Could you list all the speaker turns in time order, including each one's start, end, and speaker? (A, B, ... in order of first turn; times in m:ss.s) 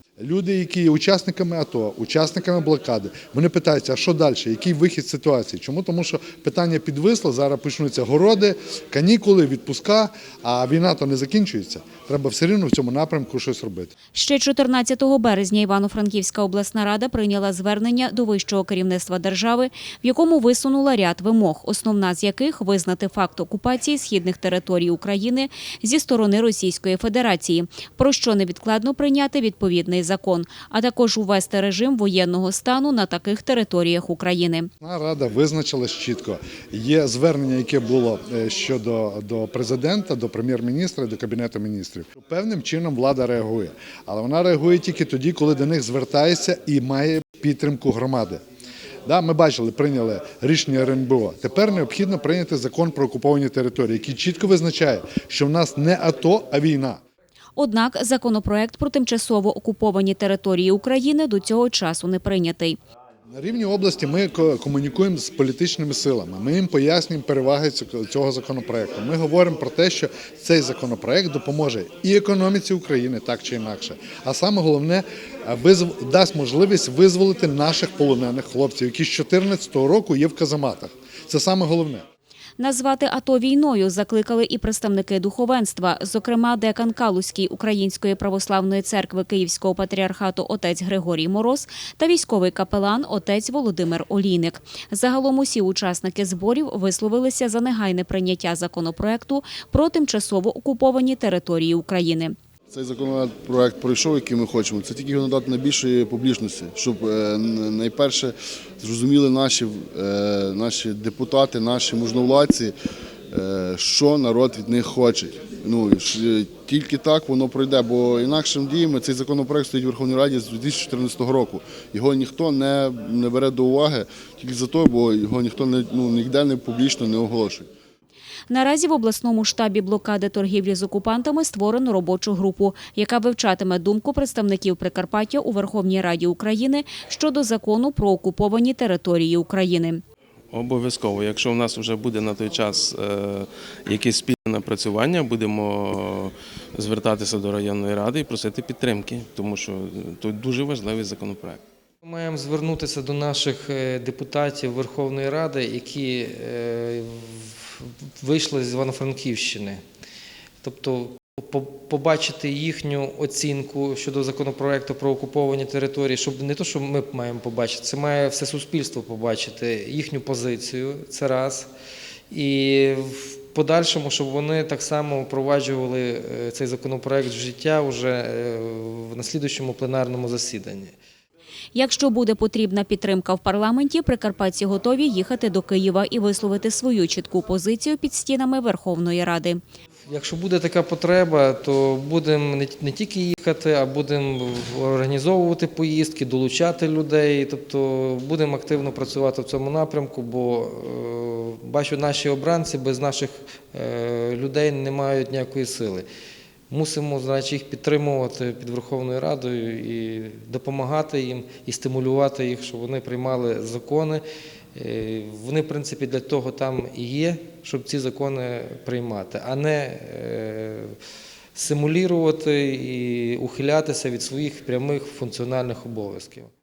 0:00.2-0:13.9 A
0:14.1-0:34.7 B
0:34.8-0:48.4 A
0:49.0-0:57.0 A
0:57.6-1:02.8 B
1:03.3-1:22.0 A
1:22.6-1:42.3 B
1:42.7-1:52.7 C
1:53.3-2:07.7 C
2:08.5-2:20.0 B
2:20.5-2:31.6 D
2:32.0-2:39.8 E
2:40.6-2:51.7 E
2:52.3-3:00.9 E
3:01.7-3:09.6 B
3:10.1-3:26.0 E
3:26.7-3:34.2 E
3:34.7-3:41.0 E
3:41.5-3:46.5 E